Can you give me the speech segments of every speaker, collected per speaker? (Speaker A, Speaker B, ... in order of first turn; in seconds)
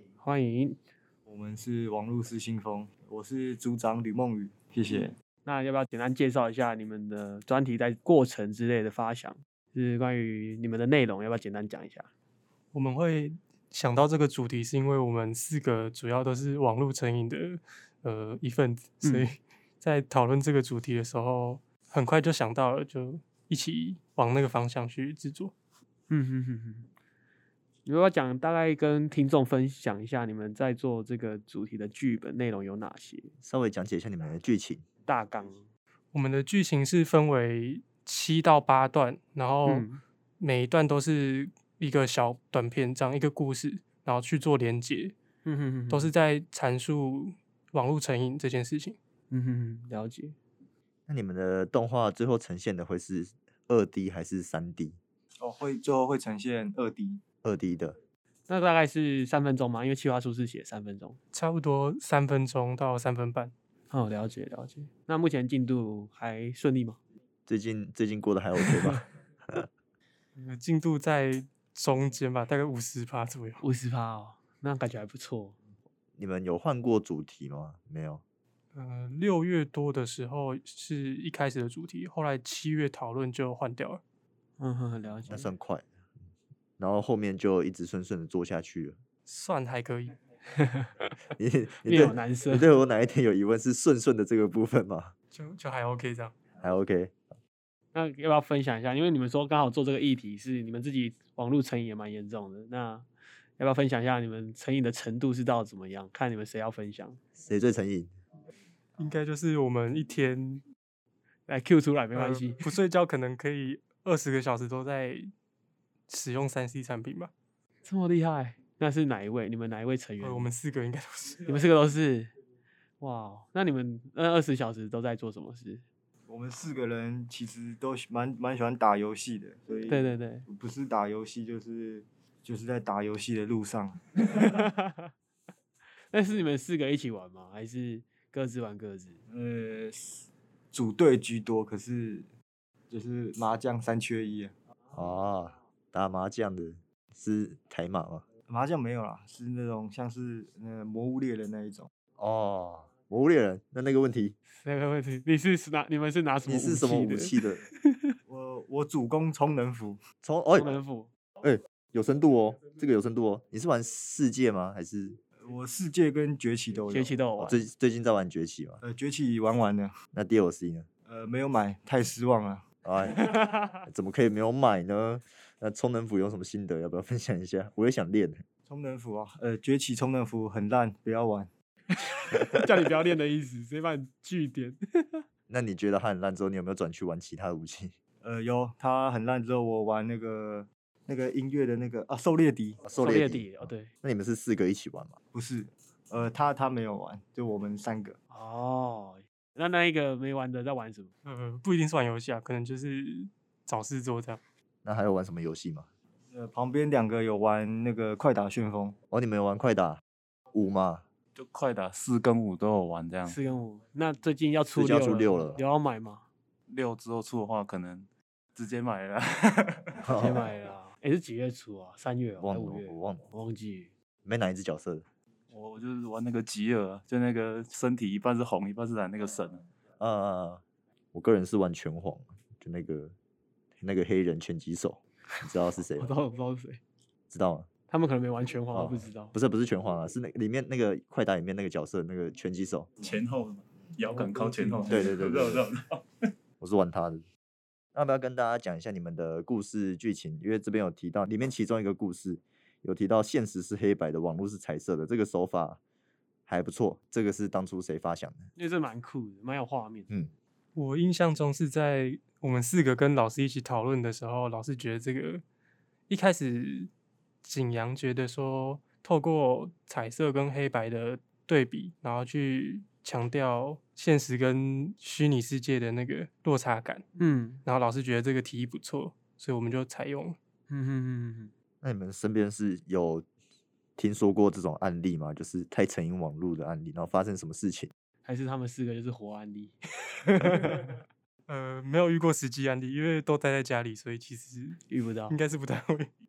Speaker A: 0.2-0.8, 5.5-12.1, 19.0-19.3, 26.1-26.9, 27.9-33.3, 35.1-35.6, 39.7-40.0, 45.5-46.1, 49.3-50.4, 58.5-61.2, 63.9-67.0, 73.6-75.5, 84.6-85.5, 90.5-91.1, 91.8-92.7, 97.9-103.1, 103.6-107.2, 111.5-112.7, 117.8-120.5, 121.5-122.3, 123.0-125.8, 129.9-130.5, 134.2-135.1, 136.1-139.2, 154.6-158.1, 160.6-161.1, 166.9-167.6, 173.1-173.8, 182.3-185.2, 193.0-193.9, 198.3-201.1, 213.3-216.3, 220.1-223.9, 236.0-236.8, 237.9-239.3, 244.2-244.8, 258.6-260.1, 277.2-277.6, 280.7-281.5, 288.2-291.0, 294.9-295.4
Speaker B: 1.3-5.1, 55.4-57.2, 126.3-134.1, 139.3-142.3, 142.9-144.5, 148.5-151.9, 158.3-160.0, 165.4-167.2, 168.8-170.0, 171.1-172.7, 178.7-181.5, 188.2-192.8, 195.3-198.2, 206.3-209.0
Speaker C: 12.7-25.5, 36.1-45.1, 45.9-49.0, 61.3-63.5, 70.4-73.6, 78.7-84.0, 89.3-90.2, 95.3-96.3, 109.0-110.6, 112.1-115.3, 116.1-117.3, 120.2-121.5, 201.2-204.4, 260.8-265.4, 266.1-266.9, 267.4-277.1, 277.6-280.4, 291.5-296.1
Speaker D: 33.4-34.9, 51.1-55.0, 57.4-58.0, 67.5-69.7, 76.2-78.2, 85.3-85.9, 86.8-89.0, 91.4-95.1, 96.6-97.2, 107.4-108.1, 144.9-148.3, 152.2-154.3, 156.4-157.6, 160.2-160.8, 161.4-165.2, 167.4-168.8, 170.1-170.9, 172.8-178.4, 185.5-187.9, 192.8-195.2, 204.8-205.9, 209.1-210.0, 210.5-211.1, 214.8-215.6, 220.0-220.5, 222.4-223.2, 224.2-225.1, 230.0-230.6, 231.1-233.1, 233.8-236.1, 237.3-237.7, 238.7-242.9, 244.9-245.6, 246.6-247.2, 247.9-255.8, 256.5-258.5, 281.8-283.3, 284.0-287.9
Speaker E: 211.3-213.4, 216.7-220.0, 225.5-229.7, 243.0-246.0